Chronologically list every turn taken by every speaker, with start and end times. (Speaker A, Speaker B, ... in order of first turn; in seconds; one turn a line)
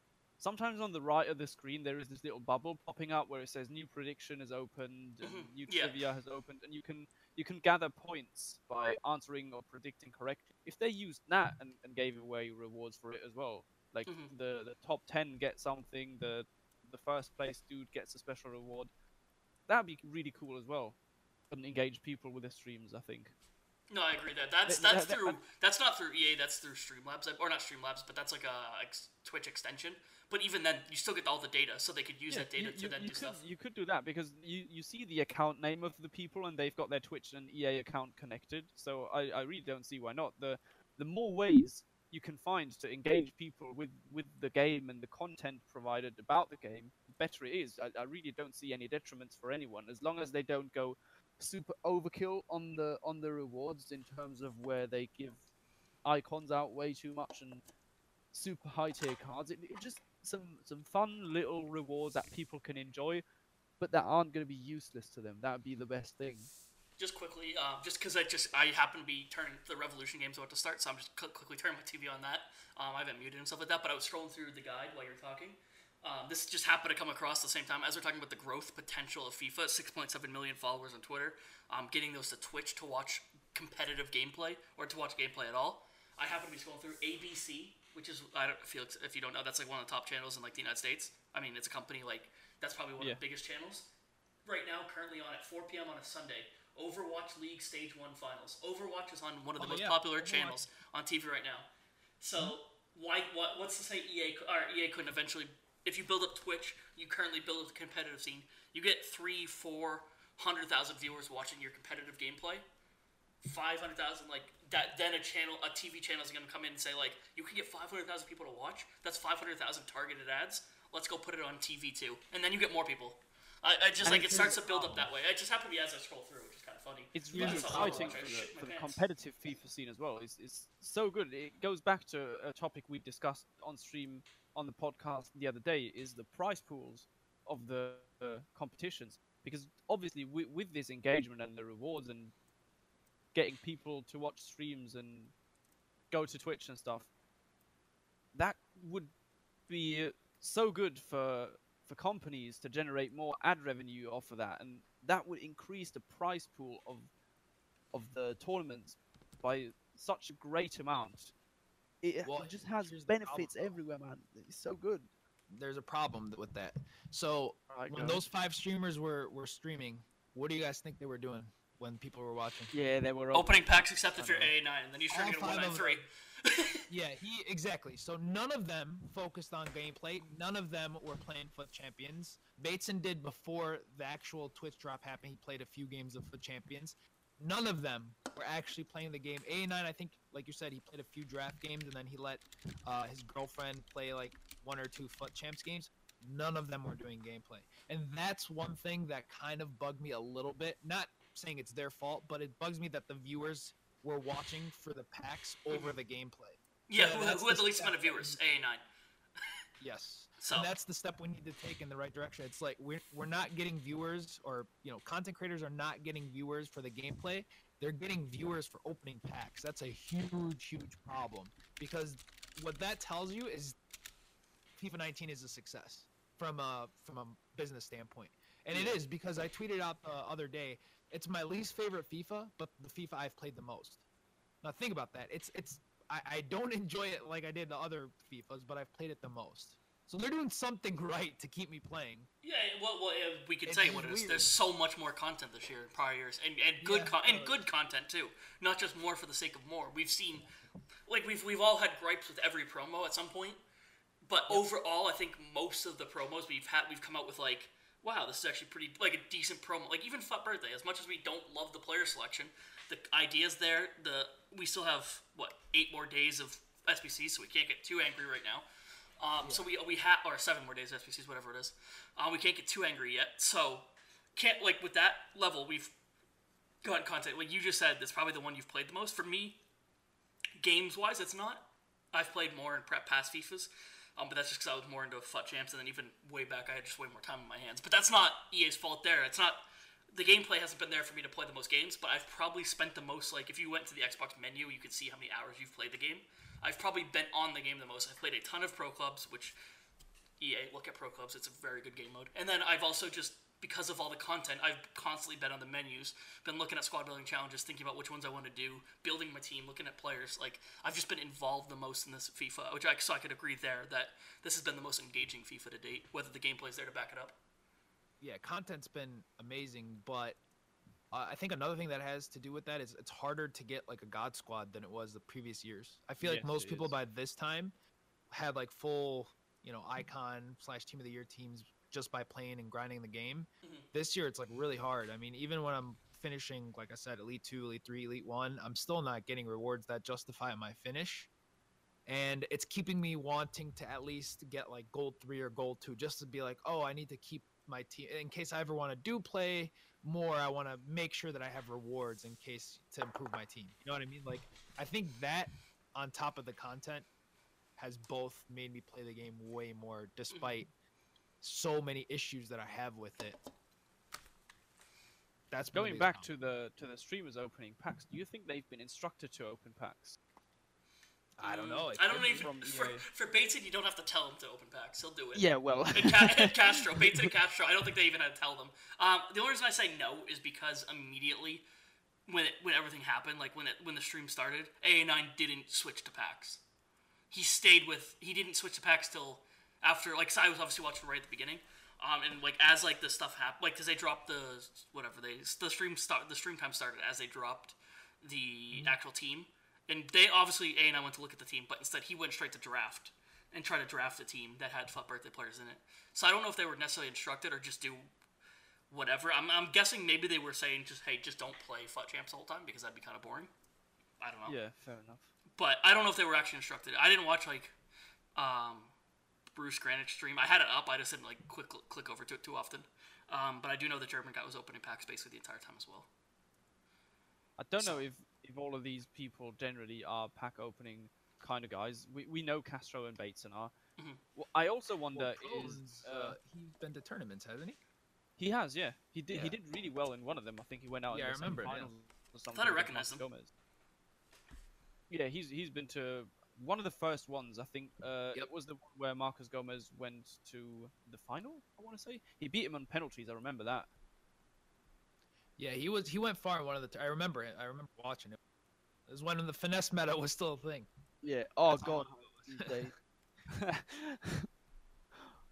Speaker A: 0.4-18.9
Speaker B: 5.2-6.0
Speaker B: 14.0-14.3
Speaker A: 19.7-20.9
Speaker A: 21.5-23.3
Speaker B: 23.9-33.4
Speaker A: 24.7-25.4
Speaker A: 32.3-55.4
Speaker A: 56.0-57.6
Speaker A: 58.3-63.2
Speaker A: 63.8-66.5
Speaker B: 67.0-93.9
Speaker B: 94.4-101.7
Speaker C: 99.6-100.6
Speaker B: 102.2-112.6
Speaker B: 113.4-129.0
Speaker C: 124.0-125.1
Speaker A: 127.1-142.3
Speaker C: 127.3-128.2
Speaker A: 143.3-145.3
Speaker A: 146.1-147.1
Speaker A: 148.3-149.1
Speaker A: 149.7-157.1
Speaker A: 157.9-161.3
Speaker A: 162.0-165.1
Speaker C: 162.2-163.8
Speaker C: 165.5-172.7
Speaker A: 167.7-168.2
Speaker A: 172.7-173.8
Speaker B: 173.3-176.8
Speaker C: 174.2-174.5
Speaker C: 175.1-176.0
Speaker C: 176.9-208.4
Speaker B: 206.9-208.8
Speaker C: 209.8-223.8
Speaker B: 210.4-210.7
Speaker C: 224.8-234.0
Speaker C: 234.6-242.3
Speaker B: 242.4-250.4
Speaker C: 243.6-244.5
Speaker C: 246.8-247.6
Speaker B: 251.1-253.6
Speaker B: 254.2-268.6
Speaker B: 269.2-275.9
Speaker B: 276.8-279.6
Speaker B: 280.6-299.6
Speaker B: 300.4-317.4
Speaker C: 318.2-320.4
Speaker C: 321.1-327.7
Speaker A: 326.2-326.9
Speaker C: 328.3-341.3
Speaker C: 342.1-357.1
Speaker C: 357.8-360.7
Speaker B: 360.3-360.6
Speaker C: 361.4-363.4
Speaker C: 365.5-366.3
Speaker A: 365.7-370.2
Speaker C: 371.4-372.5
Speaker B: 371.4-381.6
Speaker A: 372.2-373.0
Speaker A: 375.3-377.3
Speaker B: 382.3-386.6
Speaker B: 387.3-408.1
Speaker B: 408.9-413.5
Speaker B: 414.2-414.6
Speaker A: 414.4-415.3
Speaker B: 415.6-417.7
Speaker B: 418.4-418.9
Speaker B: 419.5-426.1
Speaker A: 427.6-433.7
Speaker B: 427.8-428.0
Speaker A: 434.4-436.4
Speaker C: 435.1-437.8
Speaker A: 438.4-443.5
Speaker C: 439.3-439.6
Speaker C: 441.1-441.9
Speaker B: 442.5-443.2
Speaker A: 445.1-453.9
Speaker C: 455.6-458.4
Speaker C: 459.1-460.9
Speaker A: 461.2-462.9
Speaker C: 461.7-462.9
Speaker A: 463.5-464.5